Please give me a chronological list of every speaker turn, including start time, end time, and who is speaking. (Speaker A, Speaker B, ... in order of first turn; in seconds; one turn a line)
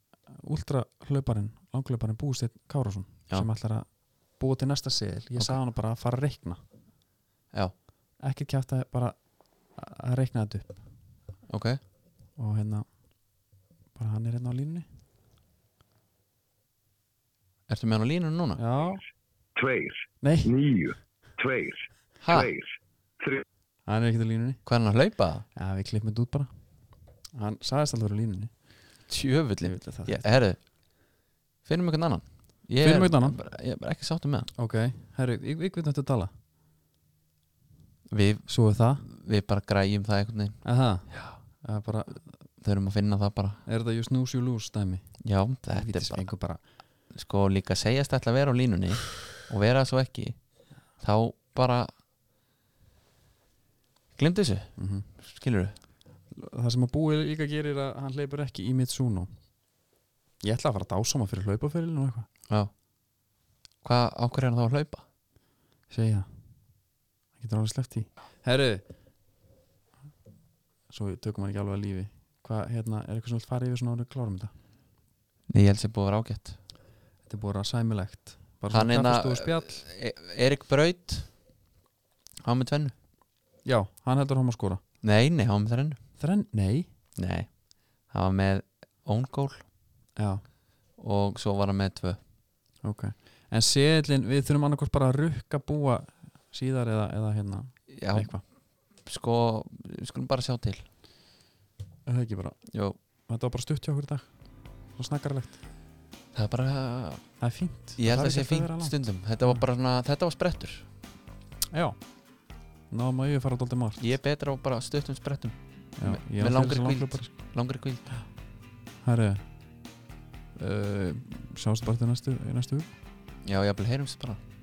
Speaker A: 0.2-6.6
Speaker A: 8.2-10.8
Speaker B: 11.5-11.8
Speaker A: 12.4-12.9
Speaker A: 14.0-14.8
Speaker B: 17.7-18.6
Speaker A: 18.6-19.0
Speaker C: 19.6-23.4
Speaker A: 20.2-20.6
Speaker B: 22.2-22.5
Speaker A: 23.9-24.6
Speaker B: 24.6-25.4
Speaker A: 25.6-26.5
Speaker A: 27.4-28.5
Speaker B: 29.1-30.7
Speaker A: 29.6-30.2
Speaker B: 31.6-34.5
Speaker A: 32.8-33.4
Speaker A: 34.6-36.3
Speaker B: 38.1-38.5
Speaker A: 38.5-39.0
Speaker B: 39.0-41.4
Speaker A: 40.6-42.2
Speaker B: 42.6-43.6
Speaker A: 43.7-45.2
Speaker B: 45.2-46.3
Speaker A: 45.7-46.6
Speaker B: 47.1-50.4
Speaker B: 51.0-51.9
Speaker B: 54.2-55.8
Speaker A: 54.8-55.1
Speaker A: 56.3-59.3
Speaker A: 60.4-62.3
Speaker B: 63.8-65.0
Speaker A: 65.9-66.3
Speaker A: 67.4-68.8
Speaker A: 70.9-74.5
Speaker B: 75.5-76.6
Speaker A: 77.3-79.8
Speaker B: 78.7-81.3
Speaker B: 82.4-82.9
Speaker A: 83.7-84.8
Speaker B: 85.0-86.0
Speaker A: 86.2-86.9
Speaker B: 87.2-87.5
Speaker B: 88.1-89.7
Speaker A: 90.2-90.4
Speaker B: 91.0-92.2
Speaker A: 92.8-98.4
Speaker B: 97.9-98.4
Speaker B: 99.0-100.8
Speaker A: 102.1-102.7
Speaker B: 102.7-103.0
Speaker A: 103.3-104.3
Speaker A: 105.0-105.6
Speaker B: 106.3-107.2
Speaker A: 107.4-109.7
Speaker B: 108.0-110.9
Speaker A: 111.7-112.0
Speaker A: 112.9-114.0
Speaker B: 114.0-118.2
Speaker A: 116.0-117.3
Speaker A: 119.0-119.4
Speaker A: 120.6-122.9
Speaker B: 123.5-124.4